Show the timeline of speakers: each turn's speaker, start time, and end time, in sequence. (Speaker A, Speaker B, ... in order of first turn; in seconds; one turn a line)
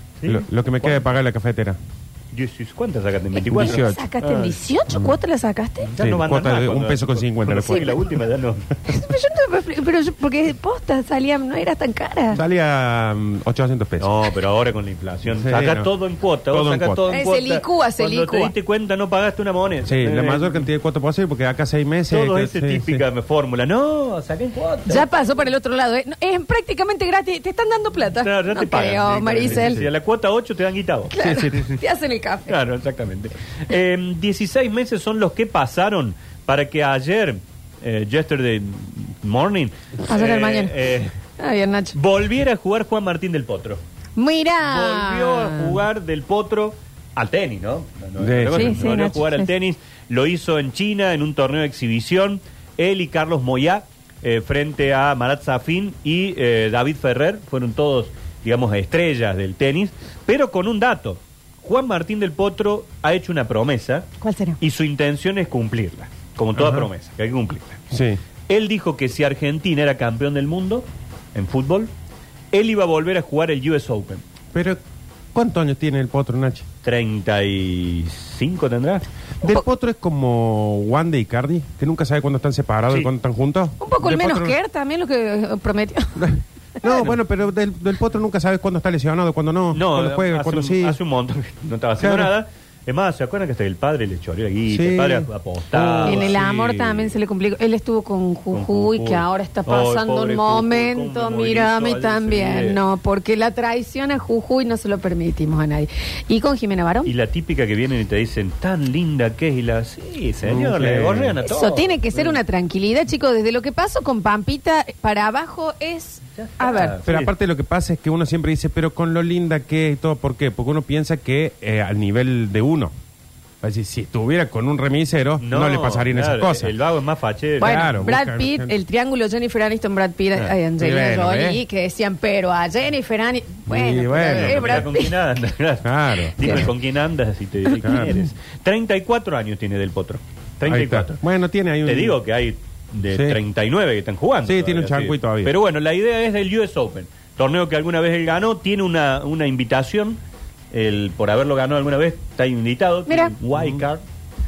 Speaker A: 0.2-1.1
Speaker B: 0.2-1.8
Speaker A: 2.3-4.6
Speaker C: 3.3-5.9
Speaker B: 3.5-4.0
Speaker A: 5.8-8.7
Speaker B: 6.0-8.0
Speaker C: 8.8-12.4
Speaker B: 12.3-14.2
Speaker A: 14.0-20.6
Speaker B: 15.3-15.9
Speaker B: 16.5-17.0
Speaker C: 17.1-18.5
Speaker B: 19.9-23.0
Speaker A: 22.1-25.1
Speaker C: 24.9-29.8
Speaker A: 28.2-31.7
Speaker B: 29.5-29.9
Speaker C: 31.1-32.5
Speaker B: 31.2-31.7
Speaker A: 32.5-41.1
Speaker C: 40.1-40.8
Speaker C: 41.4-42.0
Speaker A: 41.9-43.8
Speaker C: 44.2-45.8
Speaker A: 44.6-67.8
Speaker B: 48.2-48.9
Speaker C: 48.5-49.5
Speaker C: 64.2-64.6
Speaker B: 66.6-66.9
Speaker B: 67.9-68.2
Speaker A: 68.5-71.9
Speaker A: 72.5-74.2
Speaker B: 74.5-74.8
Speaker B: 75.3-76.6
Speaker A: 76.8-79.0
Speaker B: 79.4-84.6
Speaker C: 83.8-86.2
Speaker B: 86.2-91.0
Speaker A: 89.7-97.0
Speaker B: 92.0-92.3
Speaker B: 94.7-96.8
Speaker C: 96.0-107.1
Speaker A: 98.5-102.8
Speaker A: 107.0-112.4
Speaker B: 110.5-111.4
Speaker C: 111.4-117.0
Speaker A: 116.4-117.3
Speaker B: 117.0-122.9
Speaker B: 123.6-126.7
Speaker A: 125.4-127.9
Speaker B: 127.6-128.8
Speaker C: 127.6-135.2
Speaker B: 130.8-131.6
Speaker B: 133.7-134.9
Speaker A: 134.2-141.2
Speaker B: 135.8-136.7
Speaker C: 136.4-136.7
Speaker B: 137.8-138.2
Speaker B: 140.6-142.2
Speaker A: 141.8-150.2
Speaker B: 143.1-143.4
Speaker B: 144.4-145.5
Speaker A: 150.7-154.0
Speaker C: 153.1-153.3